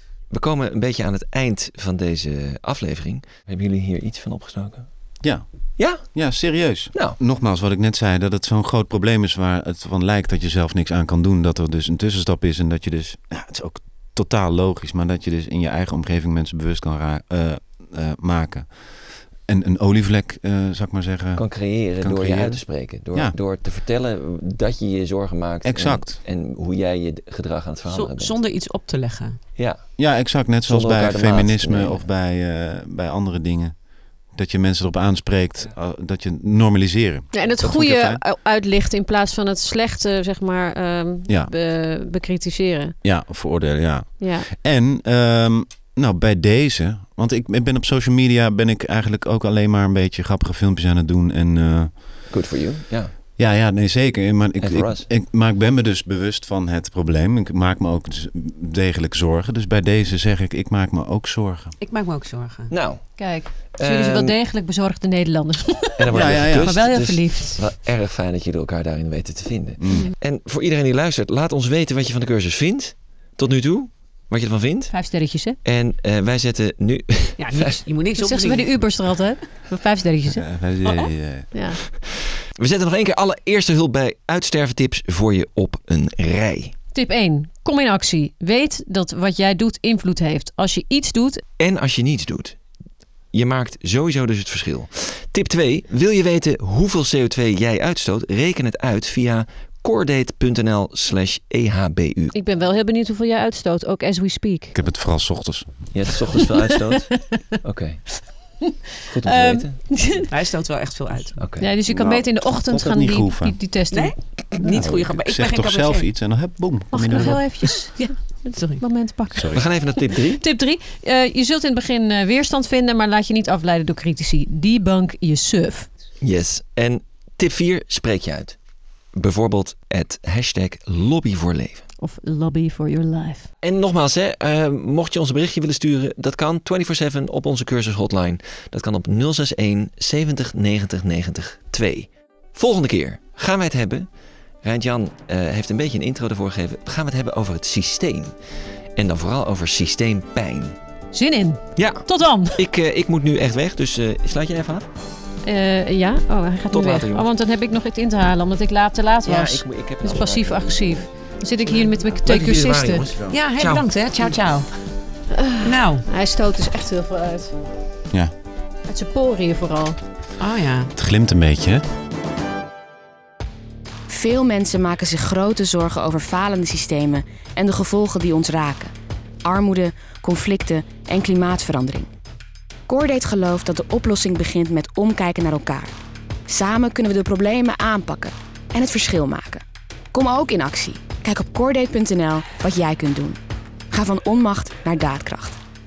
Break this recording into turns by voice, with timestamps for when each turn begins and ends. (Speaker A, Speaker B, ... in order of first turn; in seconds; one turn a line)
Speaker A: 0.3-4.9
Speaker B: 5.2-23.4
Speaker A: 5.8-6.1
Speaker A: 21.4-28.4
Speaker B: 25.6-26.2
Speaker C: 27.9-29.4
Speaker A: 29.6-29.9
Speaker B: 30.0-38.2
Speaker A: 30.5-32.0
Speaker D: 37.3-42.9
Speaker B: 43.0-52.2
Speaker D: 44.2-44.5
Speaker A: 52.3-53.1
Speaker B: 53.4-61.7
Speaker A: 54.6-55.1
Speaker C: 61.8-62.7
Speaker A: 62.7-63.2
Speaker D: 63.2-66.0
Speaker A: 63.7-64.3
Speaker A: 66.0-74.9
Speaker B: 66.1-66.8
Speaker D: 66.6-67.6
Speaker B: 69.8-70.1
Speaker D: 74.9-75.6
Speaker A: 75.6-77.8
Speaker C: 77.4-78.7
Speaker D: 78.2-80.4
Speaker B: 80.3-81.5
Speaker D: 81.5-81.8
Speaker A: 82.6-86.7
Speaker D: 86.9-91.4
Speaker A: 91.6-92.6
Speaker A: 93.3-102.3
Speaker D: 102.3-104.7
Speaker B: 104.7-105.9
Speaker A: 105.9-107.1
Speaker A: 107.6-108.2
Speaker A: 109.1-109.8
Speaker D: 109.2-110.3
Speaker C: 110.3-111.4
Speaker A: 111.4-111.7
Speaker D: 111.6-114.7
Speaker B: 111.9-113.6
Speaker C: 113.9-116.2
Speaker B: 114.6-117.6
Speaker D: 116.9-125.9
Speaker C: 117.1-118.8
Speaker B: 119.3-119.7
Speaker A: 119.5-120.4
Speaker A: 126.2-128.6
Speaker A: 129.1-131.9
Speaker D: 132.0-133.5
Speaker A: 133.6-144.1
Speaker A: 144.6-148.3
Speaker A: 148.9-150.7
Speaker D: 151.1-152.5
Speaker A: 151.8-154.9
Speaker D: 155.4-163.1
Speaker A: 156.7-157.3
Speaker A: 159.2-161.1
Speaker A: 161.7-164.3
Speaker C: 163.3-164.7
Speaker D: 165.3-167.5
Speaker C: 165.6-166.0
Speaker D: 168.8-170.0
Speaker C: 170.4-170.9
Speaker B: 170.9-171.8
Speaker E: 174.1-178.9
Speaker E: 179.4-182.1
Speaker E: 182.9-185.9
Speaker E: 186.5-193.4
Speaker E: 193.9-195.6